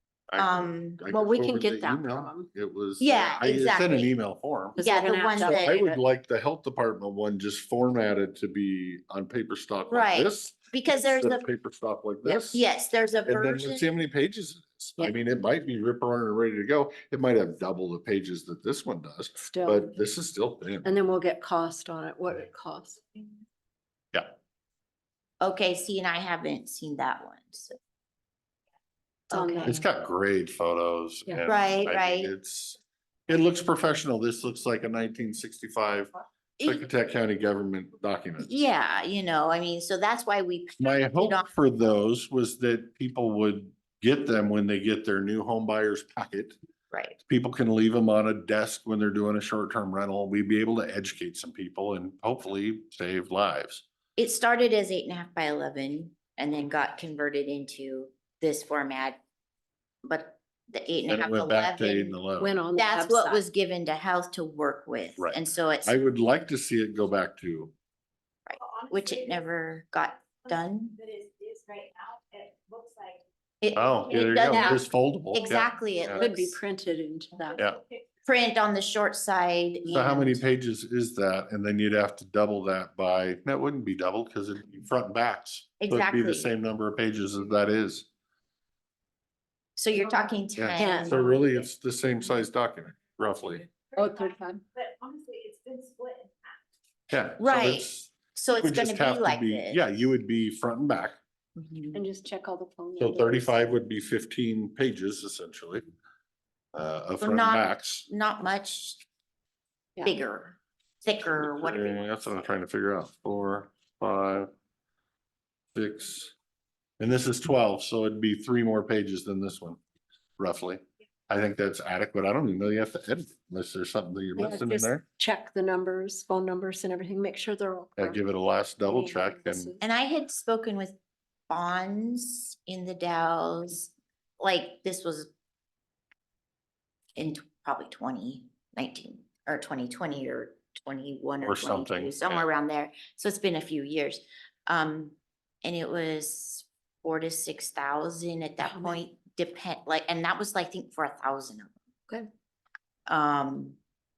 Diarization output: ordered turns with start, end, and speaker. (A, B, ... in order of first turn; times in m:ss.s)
0:00.3-0:04.8 A
0:00.4-0:01.0 B
0:01.1-0:02.5 C
0:03.0-0:04.1 B
0:04.7-0:06.0 C
0:04.8-0:05.9 B
0:05.4-0:12.6 A
0:09.9-0:11.5 B
0:12.3-0:13.9 B
0:13.2-0:20.9 A
0:19.4-0:19.9 C
0:20.8-0:23.3 C
0:25.4-0:27.8 B
0:29.3-0:29.8 B
0:29.3-0:29.8 C
0:29.6-0:36.1 A
0:31.4-0:32.3 B
0:36.6-0:36.8 B
0:36.6-0:38.6 A
0:38.4-0:41.5 B
0:40.8-0:46.6 A
0:46.9-0:47.2 B
0:47.2-0:53.8 A
0:54.2-0:59.2 B
1:00.0-1:02.2 B
1:01.1-1:02.5 A
1:02.4-1:03.4 C
1:02.7-1:05.9 B
1:05.2-1:07.7 A
1:08.4-1:11.0 B
1:11.0-1:12.1 D
1:12.7-1:13.1 D
1:13.6-1:16.6 B
1:13.7-1:16.3 A
1:16.2-1:17.6 C
1:18.2-1:20.4 B
1:19.9-1:28.0 A
1:25.8-1:26.5 B
1:29.8-1:31.4 B
1:30.6-1:33.7 A
1:30.8-1:31.2 C
1:33.9-1:34.6 C
1:34.9-1:36.2 D
1:37.1-1:41.2 A
1:37.4-1:39.8 B
1:41.6-1:42.0 B
1:41.9-1:43.8 C
1:43.0-1:45.8 A
1:46.7-1:48.0 A
1:47.2-1:49.0 B
1:50.0-1:52.0 B
1:51.4-1:54.5 A
1:55.7-1:56.3 A
1:57.0-1:59.8 A
2:00.4-2:05.0 A
2:04.4-2:08.2 C
2:08.0-2:09.7 A
2:08.8-2:09.8 C
2:09.8-2:10.9 B
2:11.5-2:15.3 B
2:17.2-2:31.7 B
2:21.4-2:22.4 A
2:28.6-2:29.0 C
2:33.1-2:33.8 B